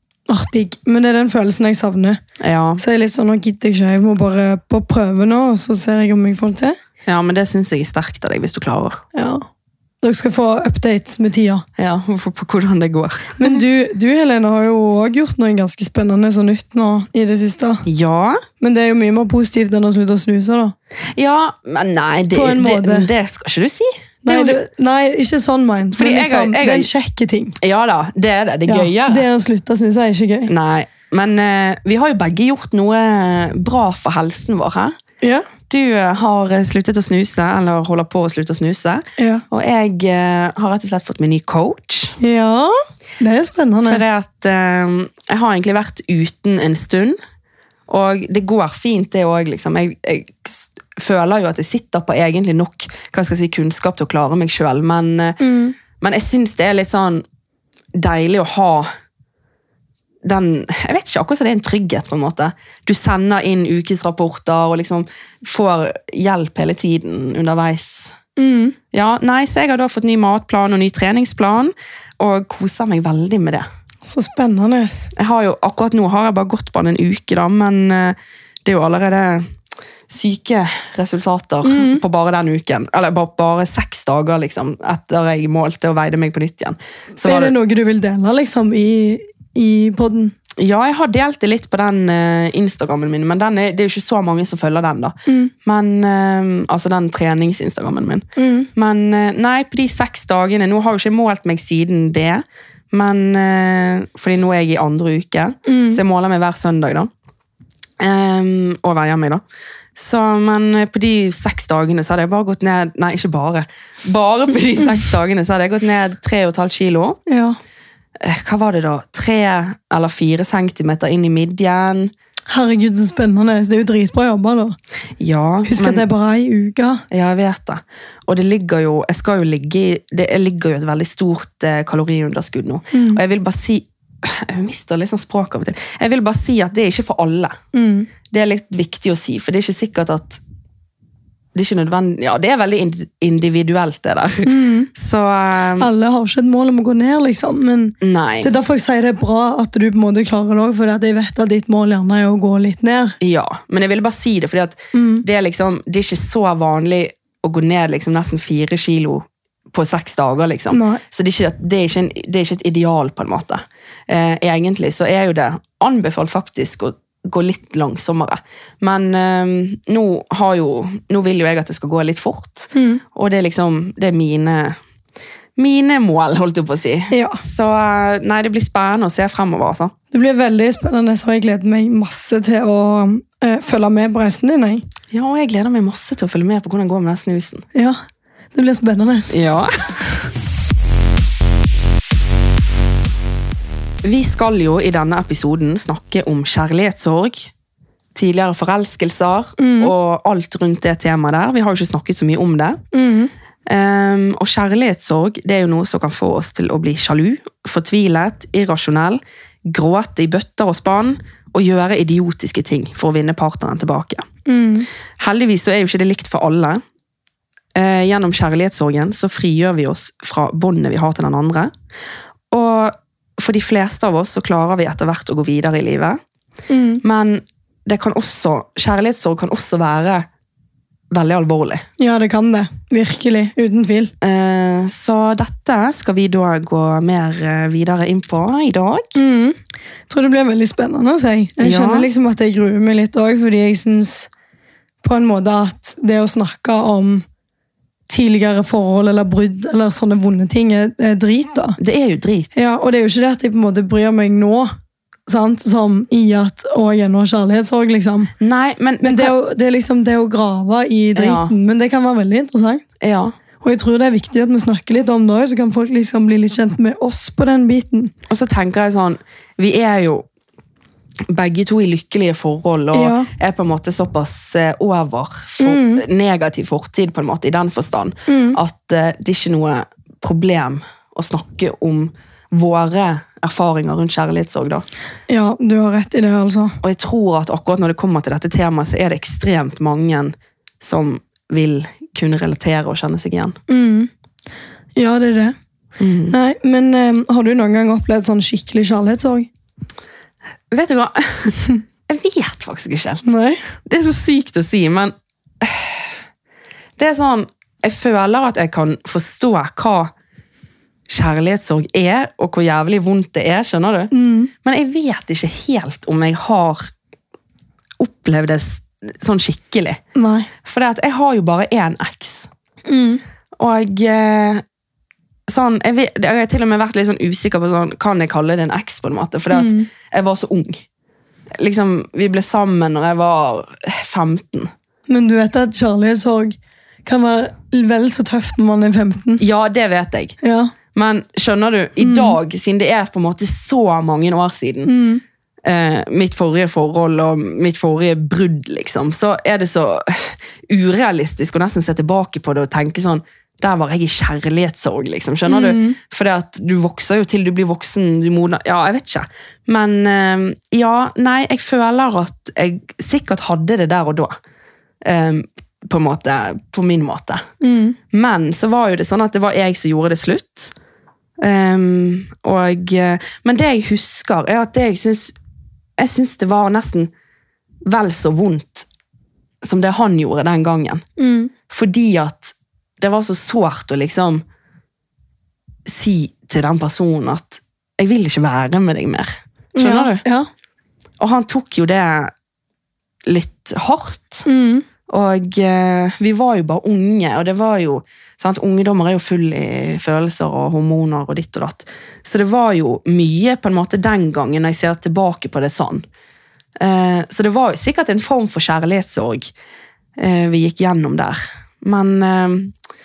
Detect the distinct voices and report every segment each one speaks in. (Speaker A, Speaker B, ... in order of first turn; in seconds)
Speaker A: 0.3-2.2, 2.8-6.8, 9.1-9.5, 10.0-11.7, 13.4-17.8, 18.6-20.8, 22.3-23.1, 24.3-27.6, 28.7-30.5, 35.2-35.5, 39.2-39.4, 42.2-44.0, 55.4-55.8, 68.4-68.8, 74.1-75.1, 81.6-82.0, 87.2-90.3, 95.3-95.5, 98.4-98.7, 105.7-106.0, 117.3-117.6, 122.5-124.8, 125.7-127.0, 132.9-133.2, 137.7-138.1, 144.4-144.9, 145.8-153.2, 154.9-155.2, 160.7-161.0, 172.7-173.0, 177.1-177.4, 180.1-184.8, 188.6-189.3, 199.6-199.9, 202.9-203.3, 214.5-214.9, 226.7-227.0, 232.0-234.1, 239.2-239.6, 240.1-244.3, 245.0-247.2, 248.1-251.8, 252.5-254.7, 255.3-258.3, 259.0-262.8, 263.6-268.1, 272.9-273.3, 275.6-276.0, 278.3-278.6, 285.3-286.8, 293.7-294.1, 295.0-295.6, 296.3-299.5, 303.2-303.7, 314.1-314.5, 320.2-320.5, 322.9-323.2, 329.5-329.9, 335.1-339.4, 340.4-340.7, 342.0-342.4, 344.9-345.2, 355.5-356.0, 367.6-368.0, 381.2-381.5, 389.8-390.5, 394.4-394.9
Speaker B: 2.4-2.8, 7.0-9.0, 11.8-13.6, 17.9-18.4, 21.1-24.6, 25.9-26.9, 27.6-29.2, 30.5-35.0, 35.7-42.2, 43.8-47.2, 47.9-55.4, 55.9-57.2, 58.0-58.9, 60.2-68.2, 68.9-73.7, 75.2-79.5, 80.1-87.5, 90.6-107.1, 108.0-109.4, 110.0-117.2, 118.2-122.1, 125.2-126.0, 127.1-137.6, 138.3-140.4, 141.5-145.9, 148.0-148.5, 153.2-174.8, 175.6-179.9, 185.1-187.7, 189.3-190.3, 194.0-197.5, 198.2-202.8, 203.7-214.3, 215.2-216.8, 217.8-221.7, 222.5-226.2, 227.0-230.3, 231.1-231.8, 234.2-239.1, 241.6-242.1, 251.8-252.5, 258.4-259.3, 261.2-261.5, 263.0-263.4, 268.3-270.2, 271.3-284.9, 286.8-293.6, 296.0-296.4, 300.7-303.2, 303.9-306.1, 307.0-310.1, 311.1-314.1, 314.6-316.9, 318.0-320.0, 320.6-322.5, 323.6-324.6, 325.5-330.8, 331.6-334.7, 339.4-340.4, 340.9-344.9, 345.6-364.4, 365.0-367.4, 368.1-370.7, 371.4-375.4, 376.0-377.1, 377.9-378.9, 379.6-381.0, 381.7-384.4, 385.9-390.2, 391.2-392.3, 393.3-394.4, 395.1-406.1, 406.8-409.5, 410.2-412.7